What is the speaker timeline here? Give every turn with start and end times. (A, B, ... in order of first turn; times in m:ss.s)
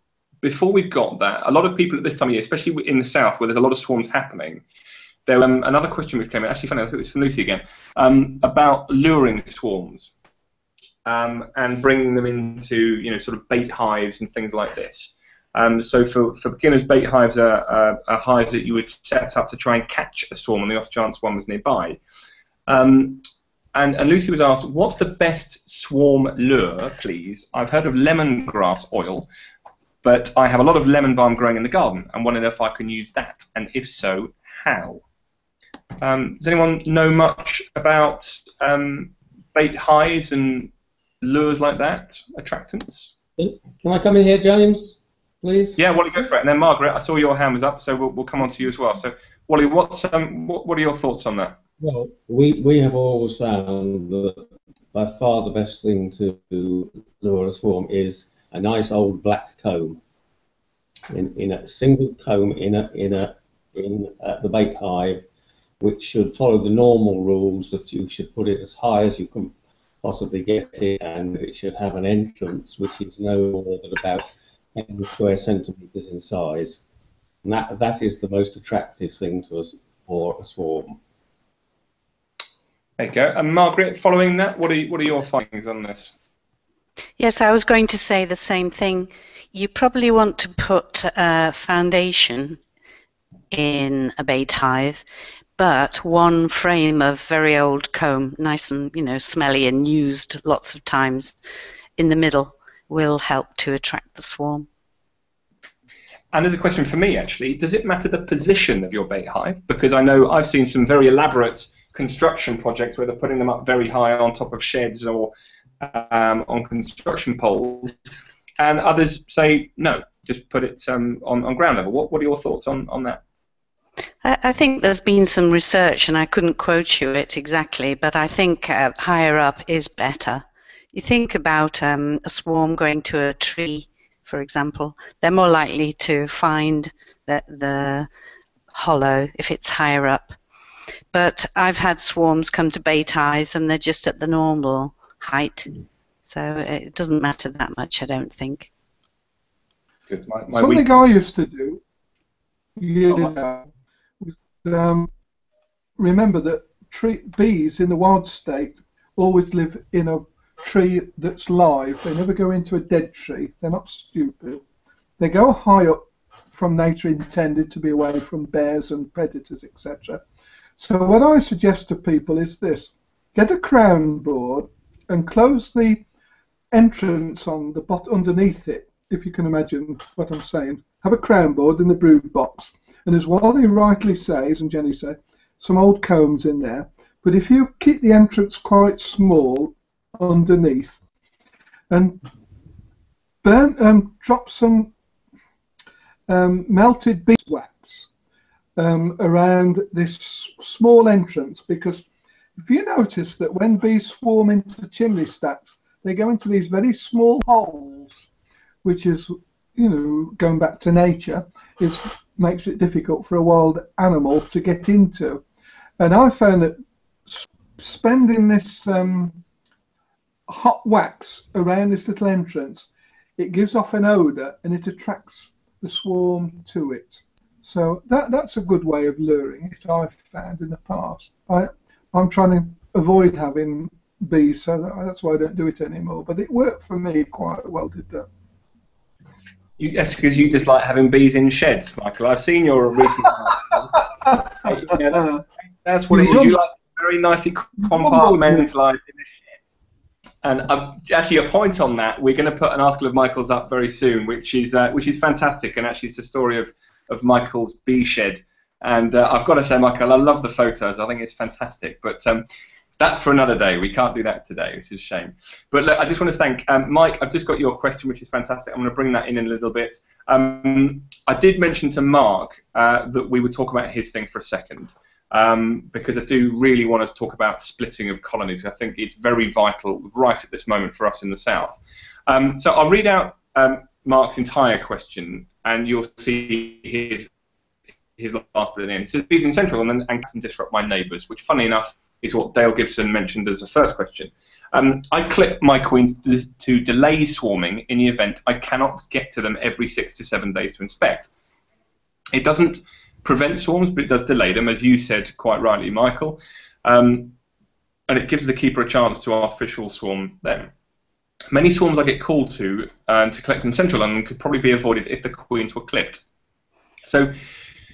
0:00.4-0:04.6 A
0:05.3-0:10.1 A
0:11.1-0:22.0 A
0:22.7-0:29.3 A
0:30.0-0:35.0 A
0:36.0-0:40.7 A
0:41.2-0:43.1 A
0:43.4-0:45.9 B
0:45.8-0:51.6 A
0:51.8-1:00.0 B
1:01.1-1:05.2 B
1:05.8-1:16.8 B
1:17.4-1:21.0 B
1:23.0-1:26.1 A
1:27.2-1:32.6 C
1:33.5-1:35.0 C
1:35.6-1:41.4 C
1:42.0-1:44.7 C
1:46.3-1:58.0 A
1:58.6-2:03.2 A
2:04.2-2:18.1 C
2:18.7-2:20.4 C
2:21.1-2:25.7 C
2:26.2-2:28.7 C
2:30.1-2:30.9 A
2:30.5-2:31.8 D
2:32.8-2:33.7 D
2:34.2-2:35.1 D
2:36.0-2:44.6 D
2:45.2-2:50.2 D
2:50.8-2:56.1 D
2:56.7-3:11.0 D
3:11.9-3:12.2 D
3:13.4-3:14.9 D
3:16.3-3:18.1 D
3:18.8-3:22.1 D
3:22.6-3:28.3 D
3:28.8-3:35.4 D
3:36.0-3:39.4 D
3:40.5-3:58.3 D
3:59.8-4:04.0 A
4:04.3-4:05.4 D
4:04.6-4:05.2 A
4:05.8-4:09.4 A
4:06.1-4:06.6 D
4:08.0-4:08.6 D
4:10.4-4:22.4 A
4:23.0-4:47.3 A
4:48.2-5:01.3 A
5:02.3-5:07.4 A
5:08.1-5:10.7 A
5:11.5-5:16.2 A
5:17.1-5:17.4 A